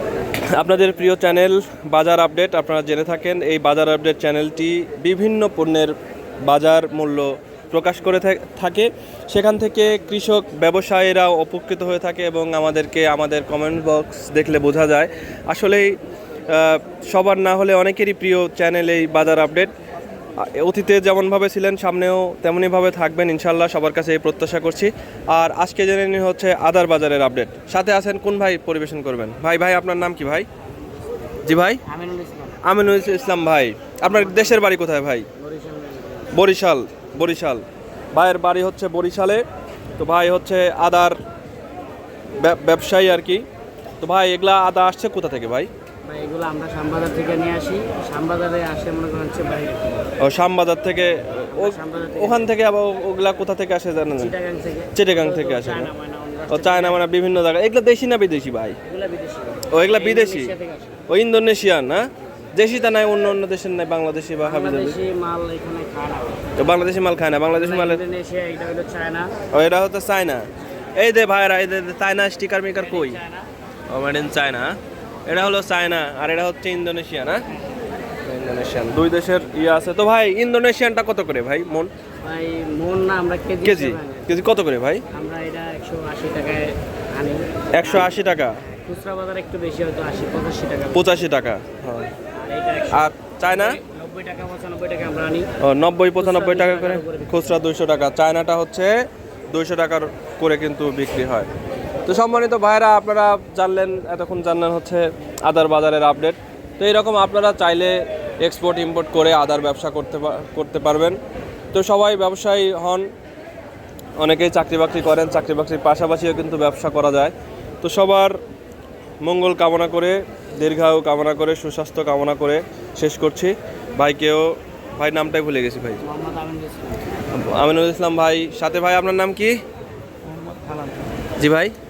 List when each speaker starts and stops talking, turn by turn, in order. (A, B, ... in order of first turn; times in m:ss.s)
0:00.5-0:16.0 A
0:16.5-0:19.7 A
0:20.4-0:30.4 A
0:31.4-0:31.8 A
0:31.8-0:32.6 B
0:32.6-0:35.3 A
0:34.0-0:34.7 B
0:35.3-0:36.4 B
0:36.3-0:37.6 A
0:38.1-0:39.4 A
0:40.0-0:41.2 A
0:42.4-0:43.4 A
0:44.0-0:45.7 A
0:46.0-0:50.1 B
0:50.2-0:54.3 A
0:51.5-0:52.5 B
0:54.2-0:57.0 B
0:54.9-0:55.9 A
0:56.5-0:58.8 A
0:58.8-1:01.0 B
0:59.7-1:00.5 A
1:01.1-1:05.0 A
1:04.4-1:06.5 B
1:06.6-1:08.0 A
1:07.5-1:09.4 B
1:09.5-1:13.2 A
1:12.8-1:13.5 B
1:13.9-1:17.4 A
1:18.2-1:21.9 A
1:22.2-1:24.3 B
1:23.6-1:25.0 A
1:25.1-1:28.2 B
1:27.7-1:28.6 A
1:28.7-1:31.2 B
1:30.9-1:32.1 A
1:32.3-1:35.5 B
1:32.9-1:33.8 A
1:35.6-1:41.5 A
1:36.2-1:37.6 B
1:42.0-1:51.2 A
1:51.7-1:53.1 A
1:54.2-1:58.4 A
1:59.2-2:06.0 A
2:06.0-2:07.1 B
2:07.3-2:09.6 A
2:10.2-2:11.1 B
2:11.4-2:11.7 A